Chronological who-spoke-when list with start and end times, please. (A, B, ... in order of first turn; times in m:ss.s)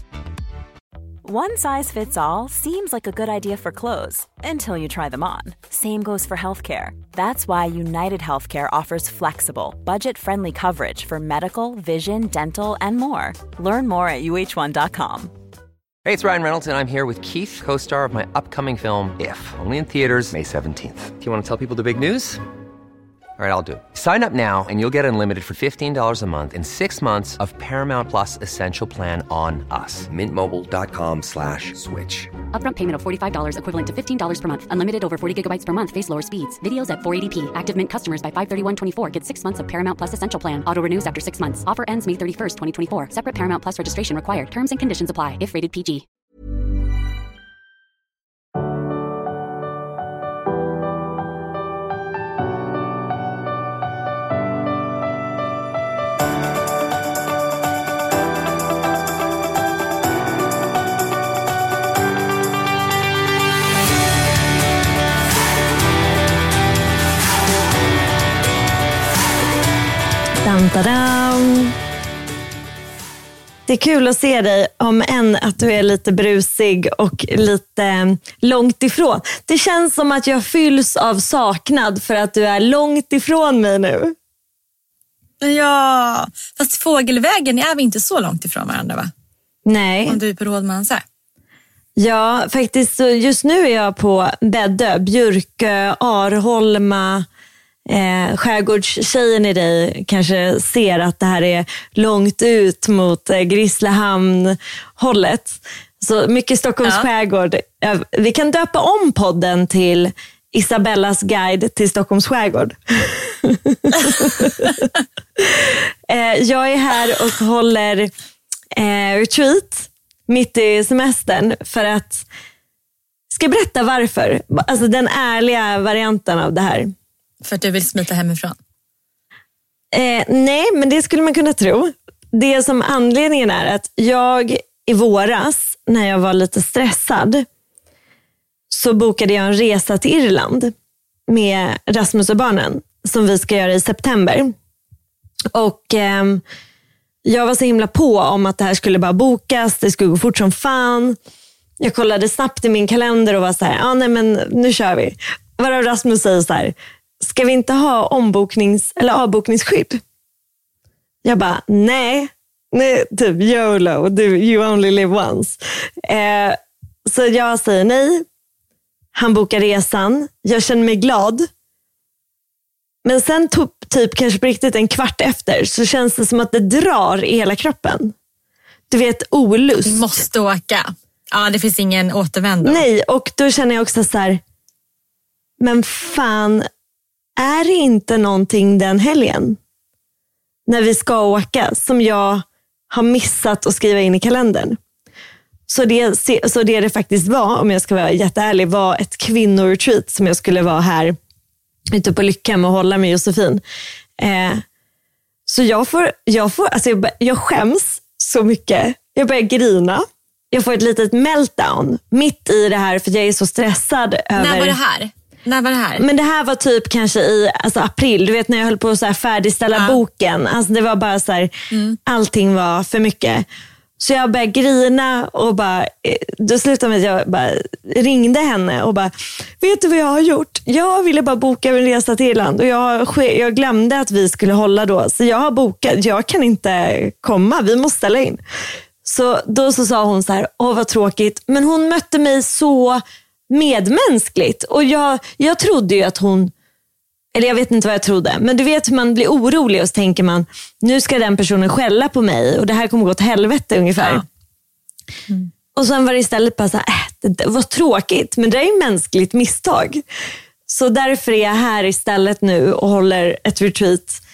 0:01.2-0:15.3 A
0:16.0-0:22.4 B
0:23.4-0:32.3 B
0:32.5-0:46.0 C
1:10.4-1:11.7 D
1:13.7-1:24.1 D
1:25.4-1:29.1 E
1:29.6-1:30.2 D
1:30.1-1:31.0 E
1:32.0-1:37.2 D
1:37.9-1:54.8 D
1:54.2-1:54.8 E
1:55.4-1:58.1 D
1:58.7-2:02.2 D
2:03.3-2:06.9 D
2:07.4-2:08.6 E
2:09.9-2:17.4 D
2:18.7-2:20.7 D
2:21.3-2:24.5 D
2:25.5-2:26.4 D
2:27.2-2:31.2 D
2:31.8-2:40.0 D
2:41.2-2:48.2 D
2:49.1-2:51.5 D
2:53.0-2:58.1 D
2:58.9-3:00.1 D
2:59.8-3:02.8 E
3:02.6-3:04.4 D
3:05.6-3:06.7 D
3:07.4-3:09.6 D
3:10.7-3:14.8 D
3:15.7-3:21.2 D
3:21.9-3:23.6 D
3:24.2-3:24.6 D
3:25.5-3:34.8 D
3:34.4-3:36.0 E
3:36.0-3:41.5 D
3:39.7-3:40.0 E
3:41.7-3:42.0 E
3:42.0-3:43.4 D
3:44.0-3:58.4 D
3:59.0-4:06.5 D
4:07.3-4:14.2 D
4:14.0-4:14.2 E
4:15.7-4:20.0 D
4:20.7-4:24.2 D